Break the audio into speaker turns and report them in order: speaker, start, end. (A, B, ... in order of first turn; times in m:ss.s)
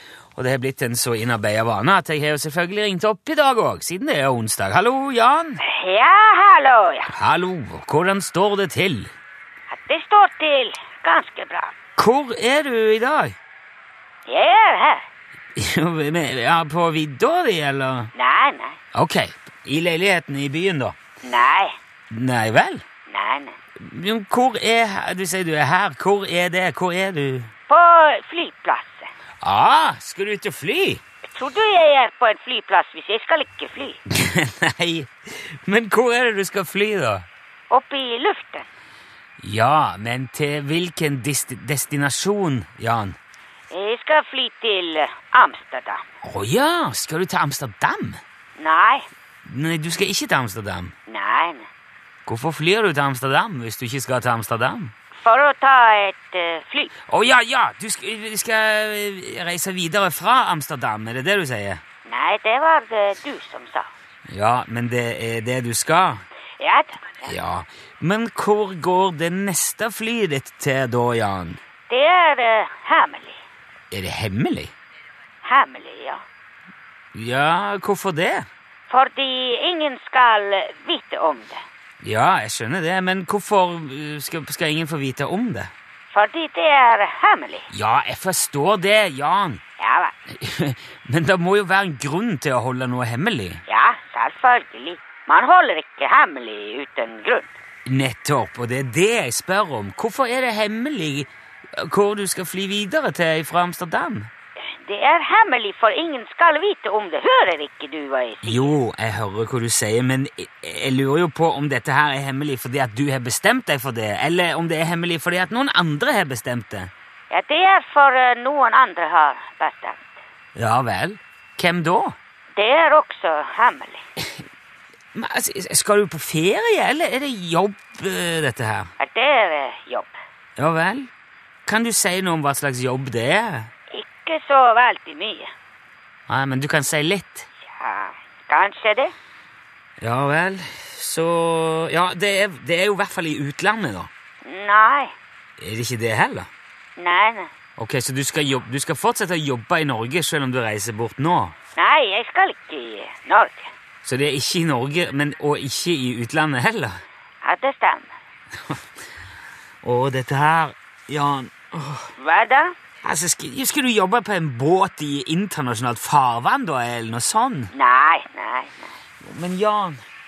0:00.4-0:05.6 A
0:05.6-0:07.1 B
0:07.1-0:09.1 A
0:09.7-0:11.8 B
0:12.0-0:13.4 A
0:14.3-0:15.0 B
0:15.6-0:18.1 A
0:18.1-0:18.8 B
0:18.9-0:21.0 A
0:21.2-0:21.7 B
0:22.1-0:22.8 A
0:23.1-0:23.6 B
0:23.8-0:27.5 A
0:27.7-0:29.1 B
0:29.4-0:31.0 A
0:31.3-0:34.0 B
0:34.1-0:37.3 A
0:37.7-0:38.7 B
0:39.4-0:43.2 A
0:43.7-0:46.0 B
0:46.2-0:48.2 A
0:48.6-0:49.1 B
0:49.4-0:50.9 A
0:51.1-0:51.7 B
0:52.3-0:54.9 A
0:55.1-0:56.9 B
0:57.1-1:01.8 A
1:02.1-1:03.9 B
1:04.3-1:06.2 A
1:06.6-1:07.3 B
1:07.2-1:11.6 A
1:11.9-1:13.4 B
1:13.9-1:14.7 A
1:15.4-1:16.2 B
1:17.1-1:18.5 A
1:18.9-1:21.6 B
1:22.0-1:25.7 A
1:26.1-1:27.7 B
1:27.7-1:29.6 A
1:29.8-1:30.1 B
1:30.3-1:33.6 A
1:33.7-1:37.5 B
1:37.9-1:44.3 A
1:44.7-1:48.8 B
1:48.4-1:56.9 A
1:57.3-2:00.2 B
2:00.6-2:02.2 A
2:02.6-2:04.0 B
2:05.1-2:08.9 A
2:09.0-2:10.2 B
2:10.6-2:11.1 A
2:11.7-2:13.7 A
2:13.9-2:15.5 B
2:16.3-2:17.5 A
2:17.6-2:19.1 B
2:20.0-2:24.1 A
2:24.4-2:25.1 B
2:25.6-2:26.5 A
2:27.0-2:27.5 B
2:27.8-2:31.6 A
2:31.8-2:33.7 B
2:34.0-2:37.0 A
2:37.4-2:38.1 B
2:39.8-2:42.1 A
2:42.2-2:42.7 B
2:43.0-2:47.7 A
2:47.7-2:48.9 B
2:49.2-2:50.0 A